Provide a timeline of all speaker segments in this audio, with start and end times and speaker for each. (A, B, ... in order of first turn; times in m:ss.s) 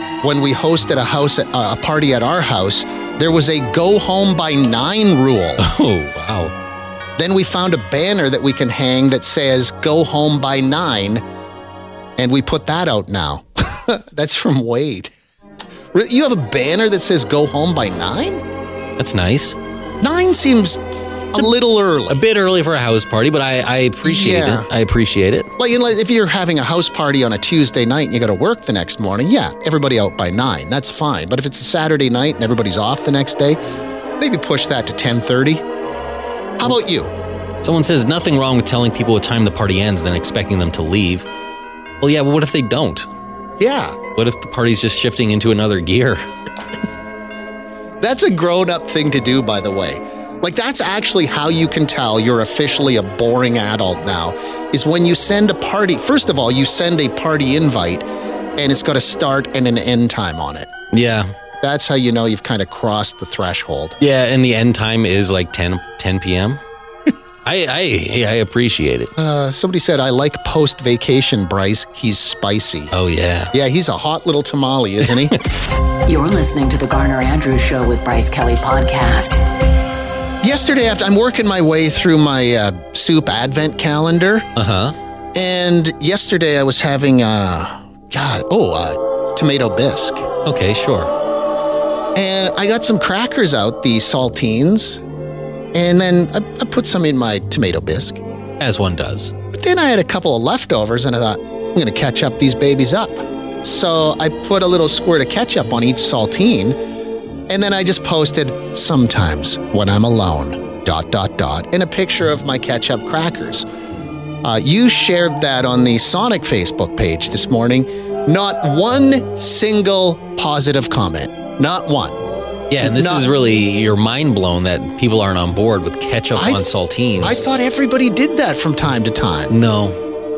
0:00.2-0:05.6 A
0:05.6-0:06.6 B
0:07.2-0:11.2 A
0:12.2-0:15.1 A
0:15.9-0:18.4 A
0:19.0-0:19.6 B
0:20.0-0:20.8 A
0:21.3-0:22.2 A
0:22.1-0:25.5 B
0:24.0-0:24.7 A
0:25.6-0:33.6 A
0:34.2-0:35.6 A
0:36.6-0:37.2 A
0:37.6-0:41.3 B
0:42.0-0:43.1 B
0:43.6-0:44.0 A
0:44.1-0:46.2 B
0:48.0-1:00.7 A
1:00.9-1:01.3 B
1:01.6-1:04.0 A
1:04.0-1:06.6 B
1:07.4-1:09.1 B
1:09.2-1:12.9 A
1:12.9-1:13.5 B
1:13.5-1:15.4 A
1:16.1-1:19.4 C
1:20.4-1:24.5 A
1:24.6-1:25.0 B
1:25.4-1:30.3 A
1:30.4-1:31.1 B
1:32.2-1:35.0 A
1:35.7-1:38.2 A
1:38.6-1:39.3 B
1:39.5-1:46.8 A
1:47.5-1:53.7 A
1:54.4-2:02.2 A
2:02.7-2:07.4 B
2:02.8-2:03.3 A
2:06.4-2:06.6 A
2:07.2-2:09.6 A
2:09.5-2:10.0 B